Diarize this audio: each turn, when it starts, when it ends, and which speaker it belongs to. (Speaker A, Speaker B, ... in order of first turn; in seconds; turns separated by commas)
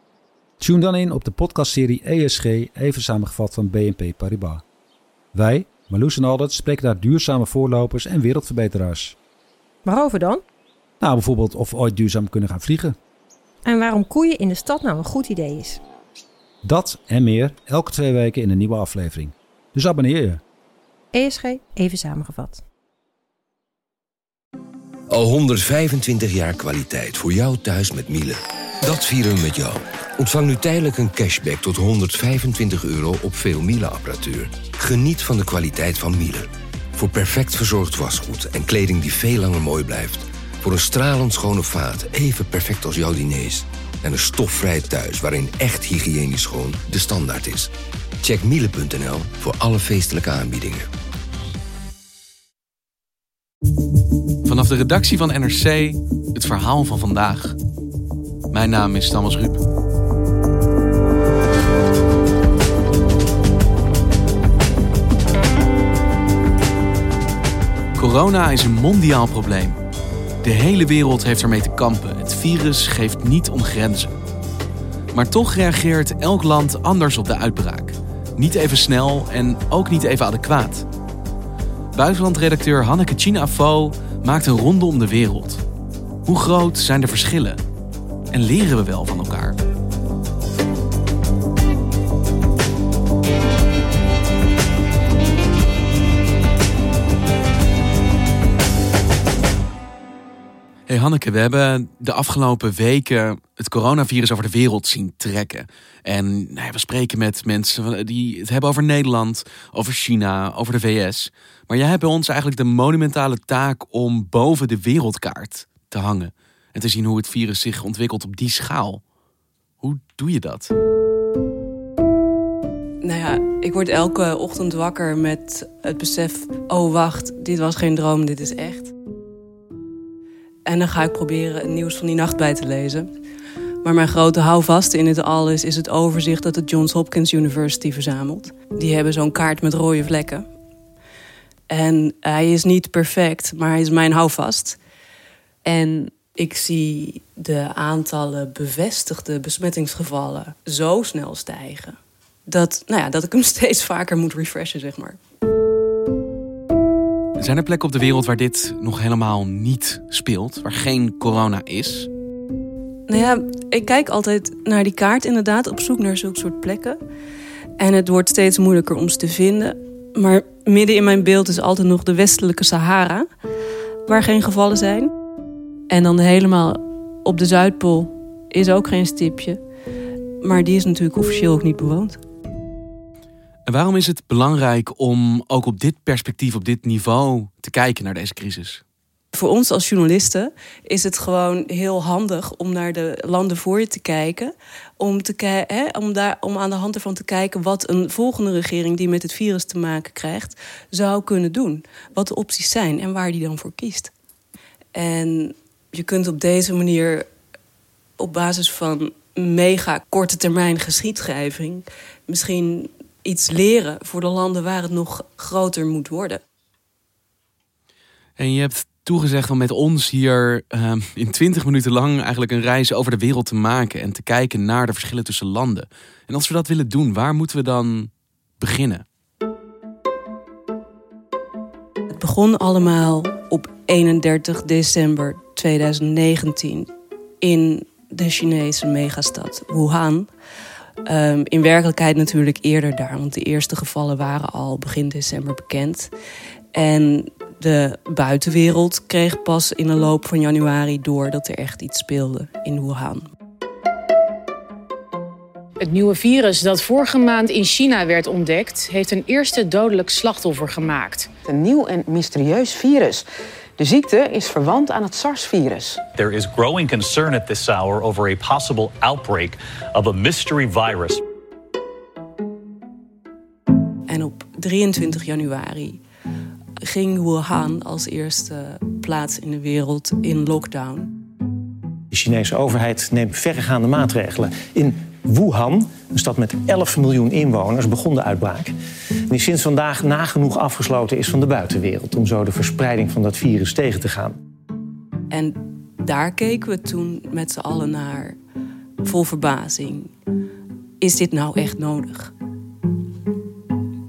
Speaker A: 0.6-4.6, Speaker A: 5.3-9.1, Speaker B: 9.8-10.4, Speaker A: 11.0-13.0, Speaker B: 13.6-15.8, Speaker A: 16.6-20.4, Speaker B: 21.1-22.6, Speaker C: 25.1-47.7, Speaker C: 48.2-50.9, Speaker D: 54.4-57.5, Speaker D: 58.5-59.6, Speaker D: 68.0-69.8, Speaker D: 70.4-74.1, Speaker D: 75.1-80.8, Speaker D: 81.9-85.6, Speaker D: 86.2-87.6, Speaker D: 88.3-89.6, Speaker D: 100.9-119.0, Speaker D: 119.8-120.7, Speaker E: 123.0-128.9, Speaker E: 130.7-133.1, Speaker E: 133.8-140.4, Speaker E: 141.7-144.8, Speaker E: 145.6-155.2, Speaker D: 157.4-162.1, Speaker E: 163.1-167.0, Speaker E: 167.8-173.3, Speaker E: 174.1-175.1, Speaker E: 175.9-179.6, Speaker E: 180.4-182.2, Speaker D: 183.7-188.8, Speaker E: 189.3-204.1, Speaker E: 204.9-207.3, Speaker E: 208.2-216.4, Speaker D: 218.4-229.0, Speaker E: 232.2-240.3, Speaker E: 241.1-246.1, Speaker E: 246.7-253.3, Speaker F: 255.8-261.3, Speaker G: 261.4-263.2, Speaker G: 263.8-266.0, Speaker H: 266.1-271.2, Speaker E: 274.1-276.0, Speaker E: 276.8-281.1, Speaker I: 282.1-288.7, Speaker I: 289.3-294.3, Speaker E: 295.3-298.4, Speaker E: 299.0-300.1, Speaker E: 301.0-302.3